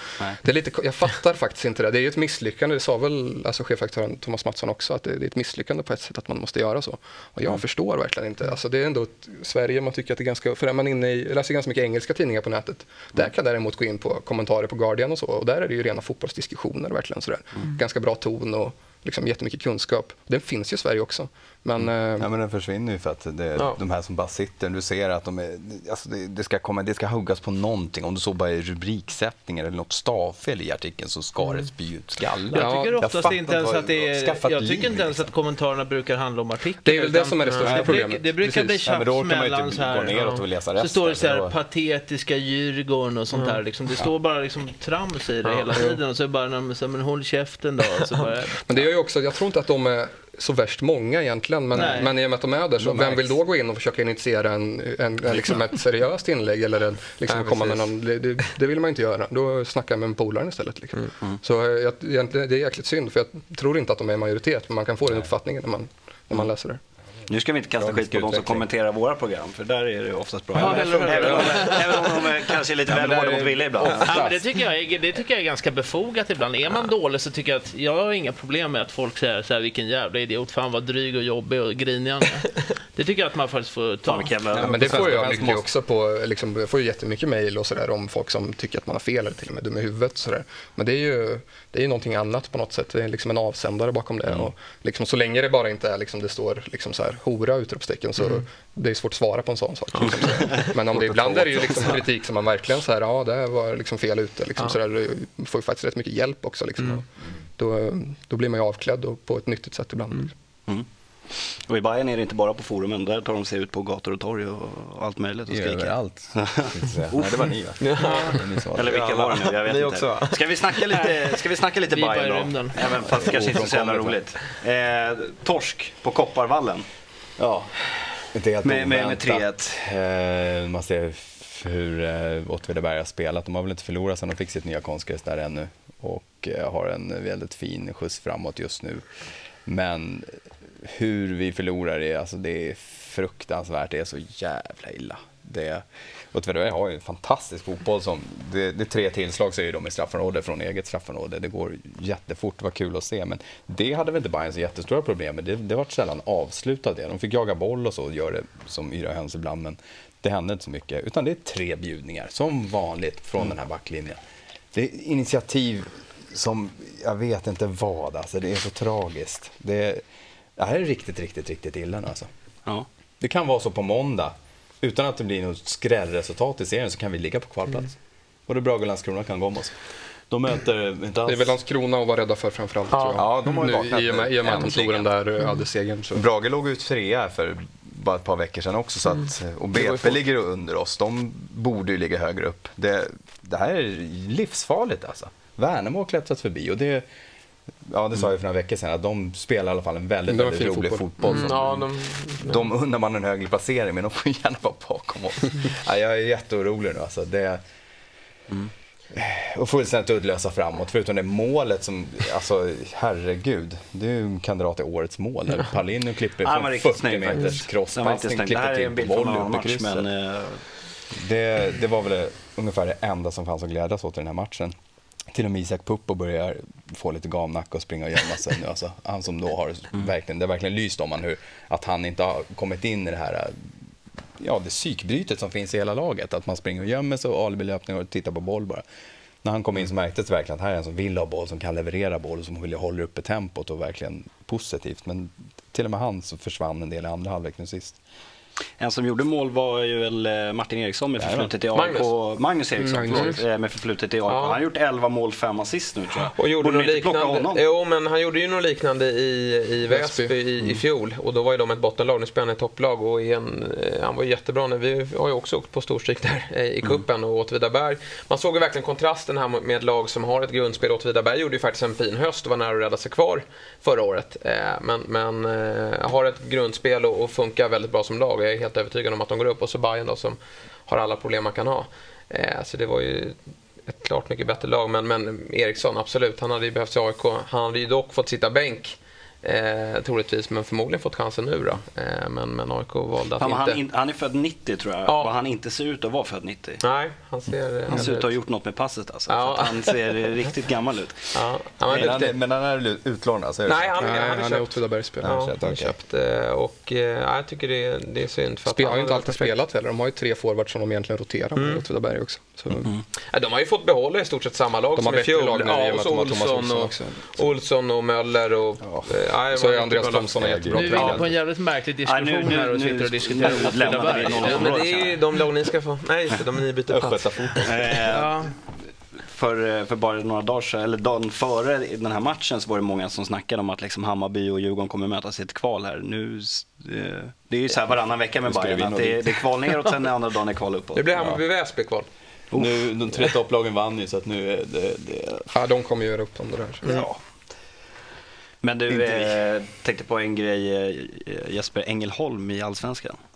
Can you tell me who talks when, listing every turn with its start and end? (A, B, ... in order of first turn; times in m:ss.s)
0:00.4-0:22.3 A
0:22.2-0:35.3 B
0:31.4-0:32.5 C
0:32.5-0:48.9 D
0:32.5-0:33.0 A
0:36.8-0:38.8 A
0:37.4-0:37.8 C
0:38.8-0:41.6 B
0:43.3-0:43.6 C
0:45.4-0:45.8 C
0:48.0-0:48.2 C
0:48.6-1:06.8 A
0:51.7-0:52.2 D
0:57.3-0:57.9 C
1:07.3-1:14.2 E
1:07.8-1:08.7 B
1:10.5-1:12.3 D
1:10.6-1:11.6 C
1:12.9-1:14.4 B
1:14.0-1:24.6 D
1:24.0-1:25.7 E
1:24.5-1:50.3 A
1:24.5-1:25.6 C
1:38.2-1:38.4 C
1:39.9-1:40.7 C
1:40.9-1:42.0 B
1:50.7-2:06.8 E
1:55.5-1:59.0 B
1:57.8-2:01.0 C
2:01.9-2:03.4 D
2:03.1-2:04.2 B
2:07.4-2:07.7 B
2:08.3-2:19.0 B
2:08.6-2:09.9 E
2:19.6-2:44.2 B
2:44.7-2:50.0 B
2:50.6-2:52.3 B
2:53.2-2:57.9 B
2:58.5-2:59.7 B
3:00.3-3:01.6 B
3:01.2-3:06.2 A
3:02.9-3:03.7 C
3:03.1-3:05.0 B
3:04.4-3:05.4 C
3:06.1-3:17.0 B
3:09.1-3:10.2 C
3:17.9-3:27.6 B
3:20.3-3:21.4 A
3:21.2-3:22.8 C
3:29.1-3:40.1 B
3:36.4-3:40.6 E
3:41.1-3:44.7 B
3:45.3-3:53.5 B
3:54.4-3:58.8 B
3:59.4-4:08.0 B
4:08.8-4:17.6 E
4:11.2-4:11.5 B
4:11.7-4:12.2 C
4:12.8-4:13.4 A
4:13.1-4:13.4 C
4:14.2-4:14.6 C
4:16.3-4:53.8 C
4:19.9-4:20.3 A
4:53.4-4:56.8 E
4:55.0-4:55.3 C
4:56.8-4:58.3 C
4:57.9-5:02.2 E
4:59.3-5:00.3 C
5:01.3-5:02.3 C
5:01.9-5:04.1 B
5:03.6-5:09.5 C
5:04.0-5:05.3 A
5:05.2-5:05.9 B
5:08.7-5:12.9 A
5:11.5-5:11.8 C
5:12.7-5:13.0 E
5:13.3-5:21.3 C
5:14.9-5:17.4 A
5:19.5-5:21.3 A
5:20.4-5:21.0 B
5:20.7-5:24.8 D
5:22.0-5:25.2 E
5:24.3-5:28.0 C
5:27.6-5:41.2 E
5:28.1-5:28.5 D
5:38.4-5:39.3 B
5:40.9-5:42.1 C
5:42.5-5:43.2 E
5:42.5-5:45.5 B
5:45.5-5:46.8 A
5:46.8-5:47.1 C
5:46.8-5:47.1 E
5:48.6-5:53.2 E
5:48.9-5:49.4 B